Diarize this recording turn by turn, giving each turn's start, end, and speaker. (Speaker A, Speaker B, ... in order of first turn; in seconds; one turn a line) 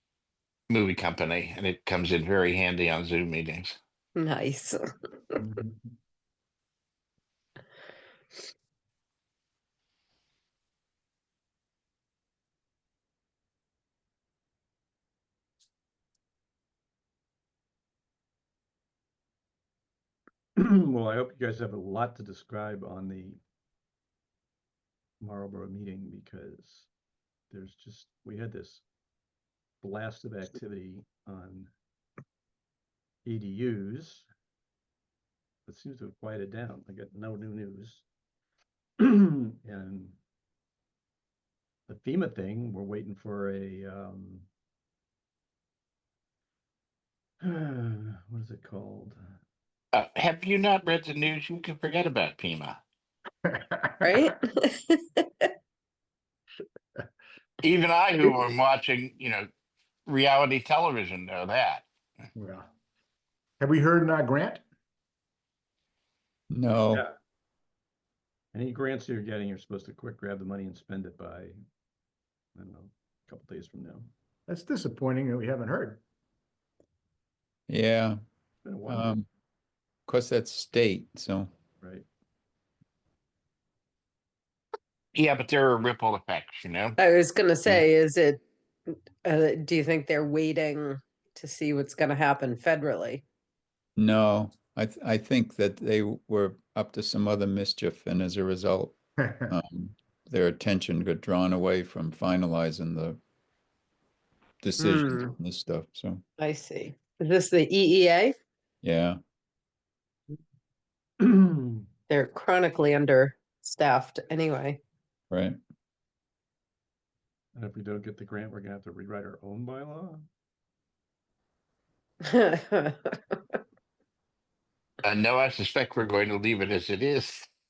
Speaker A: 0.7-3.8
Speaker B: 4.2-4.8
Speaker C: 5.4-5.9
Speaker D: 20.6-23.4
Speaker D: 25.2-26.9
Speaker D: 27.5-28.8
Speaker D: 29.8-31.7
Speaker D: 33.2-34.3
Speaker D: 35.7-38.1
Speaker D: 39.0-40.2
Speaker D: 41.9-44.5
Speaker D: 47.4-49.2
Speaker A: 49.9-52.8
Speaker C: 53.5-54.3
Speaker B: 54.0-55.5
Speaker A: 57.6-59.5
Speaker A: 60.1-61.9
Speaker C: 62.4-62.7
Speaker C: 63.6-64.6
Speaker E: 66.5-67.0
Speaker D: 68.5-71.6
Speaker D: 72.6-74.1
Speaker C: 74.5-76.0
Speaker E: 77.7-78.2
Speaker D: 78.6-79.2
Speaker E: 78.9-79.3
Speaker E: 80.1-81.5
Speaker D: 81.8-82.1
Speaker A: 85.2-87.0
Speaker B: 87.0-88.4
Speaker B: 89.2-93.2
Speaker E: 94.0-99.0
Speaker E: 99.5-103.2
Speaker E: 104.6-106.2
Speaker B: 104.8-105.3
Speaker B: 106.4-108.3
Speaker E: 108.8-109.2
Speaker D: 111.2-111.8
Speaker B: 112.1-114.8
Speaker E: 115.3-115.6
Speaker D: 117.5-120.3
Speaker B: 122.2-123.6
Speaker A: 125.0-127.5